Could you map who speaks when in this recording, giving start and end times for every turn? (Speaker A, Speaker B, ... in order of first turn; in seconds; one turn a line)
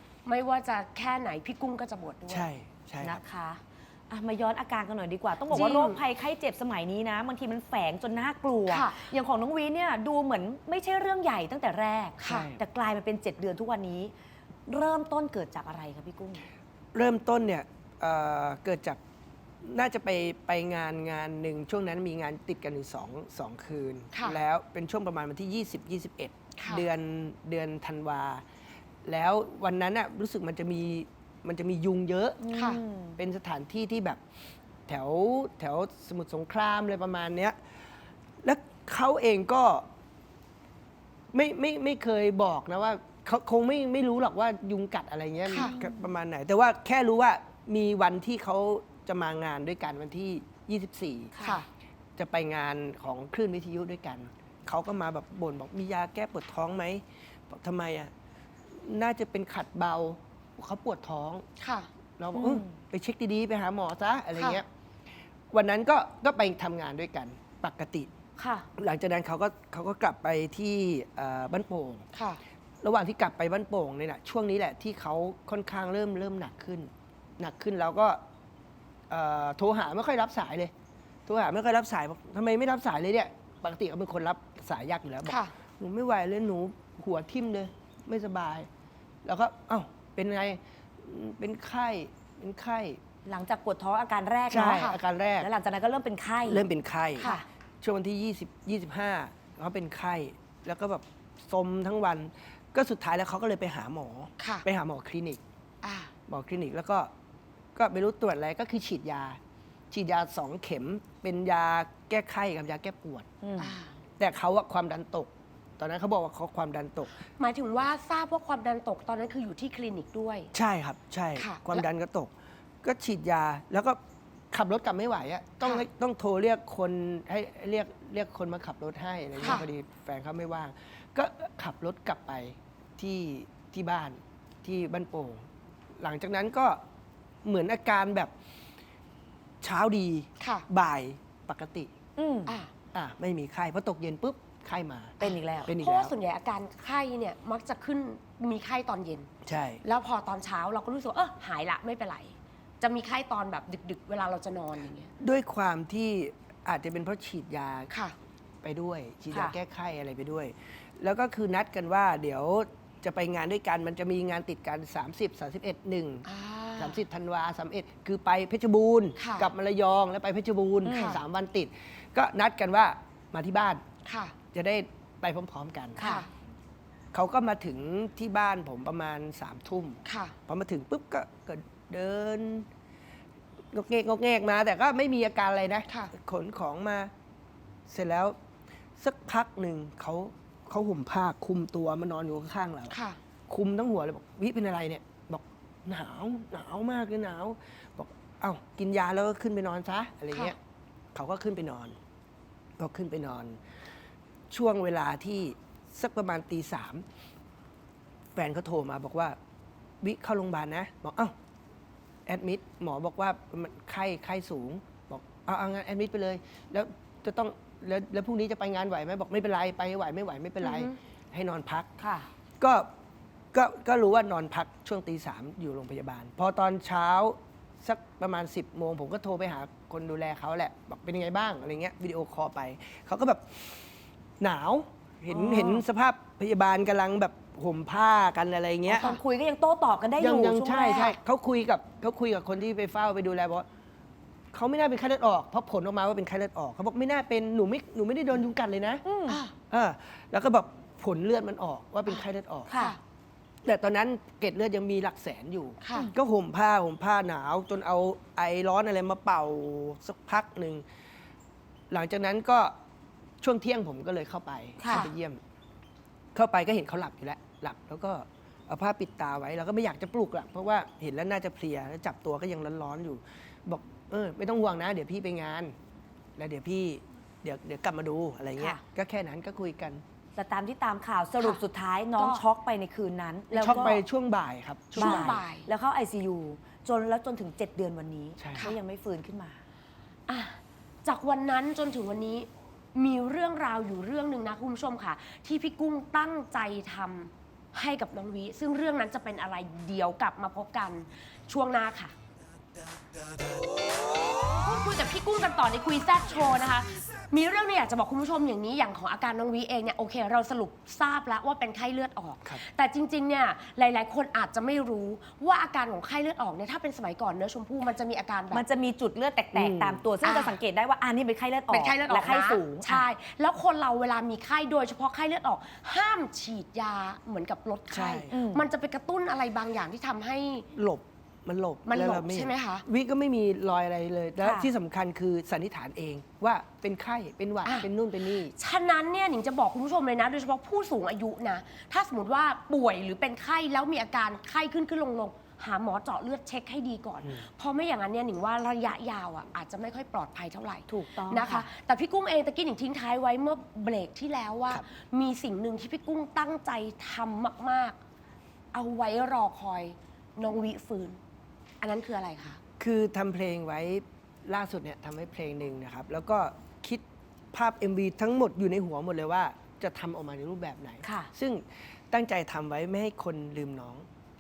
Speaker A: 0.3-2.5
Speaker B: 2.3-3.2
Speaker C: 3.0-14.1
Speaker A: 5.5-6.0
Speaker A: 8.7-9.0
Speaker A: 12.2-12.5
Speaker B: 12.3-12.6
Speaker C: 14.7-16.4
Speaker B: 16.9-19.0
Speaker B: 19.6-28.4
Speaker A: 24.1-24.4
Speaker A: 26.6-26.9
Speaker B: 29.1-32.4
Speaker C: 32.4-33.2
Speaker B: 33.2-34.2
Speaker B: 34.9-37.6
Speaker B: 38.4-39.9
Speaker B: 41.3-51.4
Speaker A: 45.5-45.8
Speaker C: 45.5-46.0
Speaker C: 51.4-51.6
Speaker B: 52.2-58.1
Speaker B: 58.7-61.5
Speaker A: 61.6-61.9
Speaker B: 62.2-64.7
Speaker C: 62.4-62.8
Speaker A: 64.4-64.6
Speaker B: 65.5-68.1
Speaker C: 68.4-68.7
Speaker B: 68.8-72.0
Speaker A: 72.2-72.4
Speaker B: 72.8-78.2
Speaker B: 79.1-80.7
Speaker B: 81.3-88.7
Speaker A: 85.2-85.5
Speaker B: 89.2-93.0
Speaker C: 93.3-96.7
Speaker B: 94.5-95.5
Speaker A: 94.6-95.0
Speaker B: 96.5-97.3
Speaker C: 97.2-97.5
Speaker B: 97.8-105.4
Speaker A: 104.4-104.7
Speaker A: 105.8-106.1
Speaker B: 106.3-107.1
Speaker B: 107.8-109.4
Speaker B: 109.9-113.3
Speaker C: 113.4-113.7
Speaker A: 113.6-113.9
Speaker B: 114.2-117.2
Speaker A: 117.4-120.5
Speaker B: 120.5-124.0
Speaker A: 121.4-121.8
Speaker B: 124.5-135.5
Speaker A: 129.4-129.7
Speaker B: 136.0-136.8
Speaker B: 137.4-138.3
Speaker B: 139.6-141.9
Speaker A: 140.4-140.7
Speaker C: 142.2-142.6
Speaker A: 142.5-142.7
Speaker B: 142.9-146.1
Speaker C: 145.2-145.7
Speaker A: 145.2-149.3
Speaker B: 149.4-149.8
Speaker A: 149.8-155.1
Speaker B: 155.2-157.9
Speaker B: 158.6-166.3
Speaker A: 166.3-167.0
Speaker B: 166.8-173.8
Speaker A: 169.2-169.5
Speaker C: 170.8-171.2
Speaker A: 170.9-171.2
Speaker A: 174.1-174.4
Speaker B: 174.5-176.1
Speaker C: 176.0-176.3
Speaker A: 176.0-176.3
Speaker B: 177.1-182.7
Speaker A: 180.1-180.3
Speaker B: 183.7-187.1
Speaker B: 187.9-188.4
Speaker B: 189.0-193.0
Speaker A: 192.9-193.2
Speaker B: 193.5-200.6
Speaker B: 201.1-202.0
Speaker B: 202.8-203.6
Speaker B: 204.5-207.1
Speaker B: 208.4-209.4
Speaker B: 210.0-211.3
Speaker B: 212.3-221.9
Speaker A: 220.6-220.9
Speaker C: 222.0-222.3
Speaker B: 222.6-222.9
Speaker B: 223.5-239.2
Speaker C: 235.3-235.8
Speaker C: 238.9-241.2
Speaker B: 240.2-243.7
Speaker B: 244.5-249.0
Speaker C: 249.1-249.4
Speaker A: 249.3-249.5
Speaker B: 249.7-252.7
Speaker C: 252.7-253.0
Speaker B: 253.7-260.9
Speaker A: 255.8-256.1
Speaker B: 261.9-262.8
Speaker B: 263.4-265.4
Speaker C: 264.8-265.1
Speaker A: 264.9-265.1
Speaker B: 266.4-275.8
Speaker B: 276.4-280.0
Speaker C: 280.4-284.0
Speaker A: 282.2-282.4
Speaker A: 283.5-284.0
Speaker B: 283.6-285.4
Speaker C: 285.0-289.6
Speaker A: 285.0-285.7
Speaker B: 288.4-288.7
Speaker A: 290.3-302.1
Speaker A: 304.5-318.6
Speaker C: 318.5-323.1
Speaker B: 319.5-320.0
Speaker A: 320.2-320.6
Speaker A: 321.7-330.7
Speaker B: 327.9-328.4
Speaker C: 328.3-328.7
Speaker B: 330.7-338.5
Speaker A: 331.9-332.9
Speaker C: 334.4-334.7
Speaker A: 338.6-358.0
Speaker B: 347.2-347.5
Speaker C: 350.9-351.7
Speaker A: 358.7-361.2
Speaker A: 361.8-362.6
Speaker B: 362.8-374.1
Speaker C: 371.1-371.3